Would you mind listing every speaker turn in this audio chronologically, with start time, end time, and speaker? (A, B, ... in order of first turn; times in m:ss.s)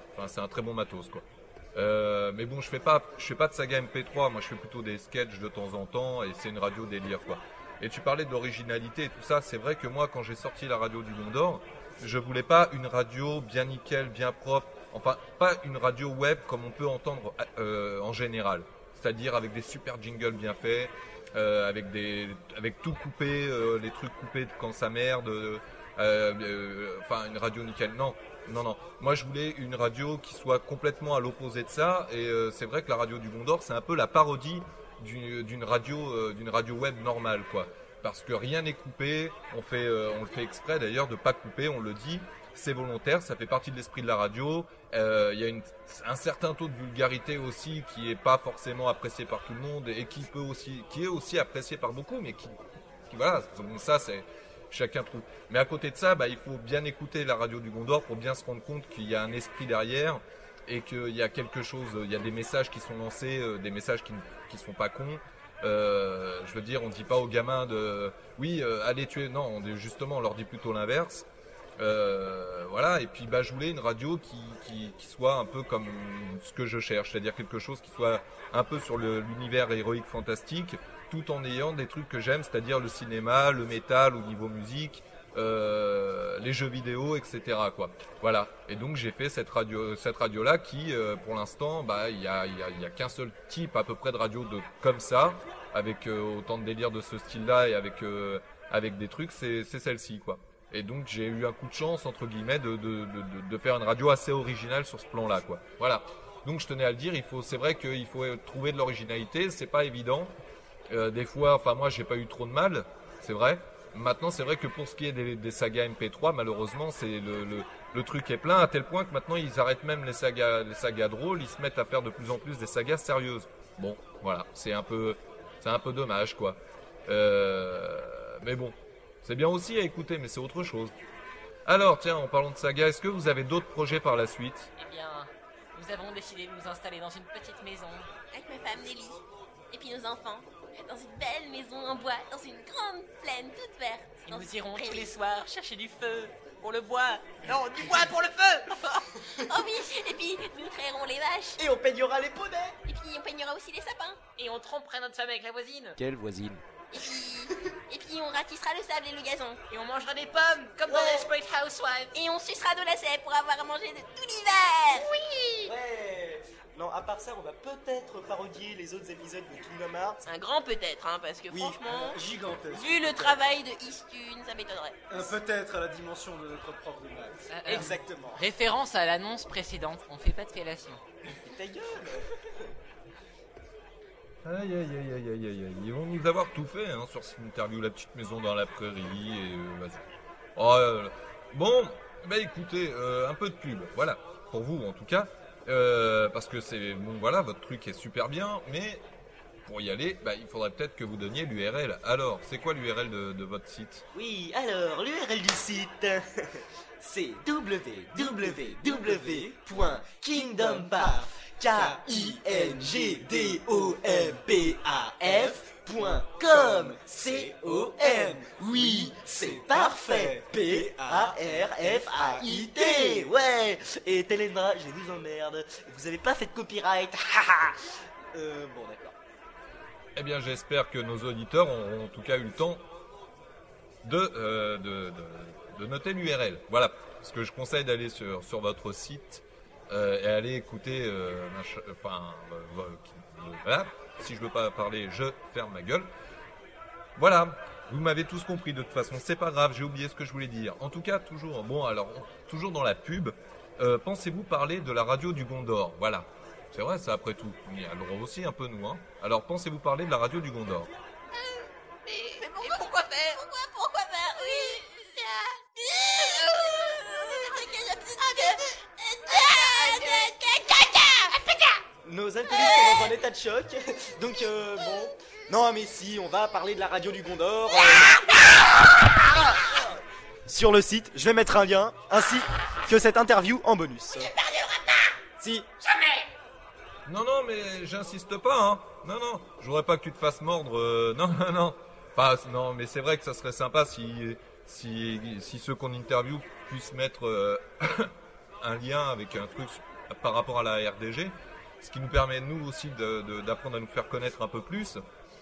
0:00.1-1:11.3 A
1:11.8-1:50.3 A
1:50.9-2:10.9 A
2:11.7-2:14.7 A
2:14.8-2:18.1 B
2:18.3-2:25.1 C
2:24.2-2:29.0 B
2:29.4-2:31.6 C
2:31.6-2:32.8 D
2:32.9-2:34.2 C
2:34.4-2:36.0 B
2:36.0-2:36.6 D
2:36.9-2:39.6 C
2:39.7-2:42.1 B
2:40.9-2:41.3 D
2:42.1-2:45.1 C
2:45.5-2:50.2 D
2:50.2-2:52.2 C
2:51.5-2:51.8 D
2:51.8-2:53.4 E
2:52.7-2:55.3 C
2:55.1-2:57.9 E
2:57.5-3:01.0 B
2:57.7-2:58.5 D
3:01.4-3:02.7 D
3:04.4-3:19.0 A
3:19.6-3:24.0 A
3:24.1-3:47.8 D
3:28.2-3:34.4 E
3:35.2-3:43.3 E
3:48.3-3:49.2 D
3:50.2-3:52.8 A
3:54.0-4:06.1 A
4:07.2-4:20.9 A
4:22.3-4:31.8 C
4:32.0-4:44.3 D
4:32.5-4:33.1 C
4:38.0-4:38.4 C
4:44.1-4:45.1 C
4:45.4-4:45.7 D
4:47.1-5:05.0 A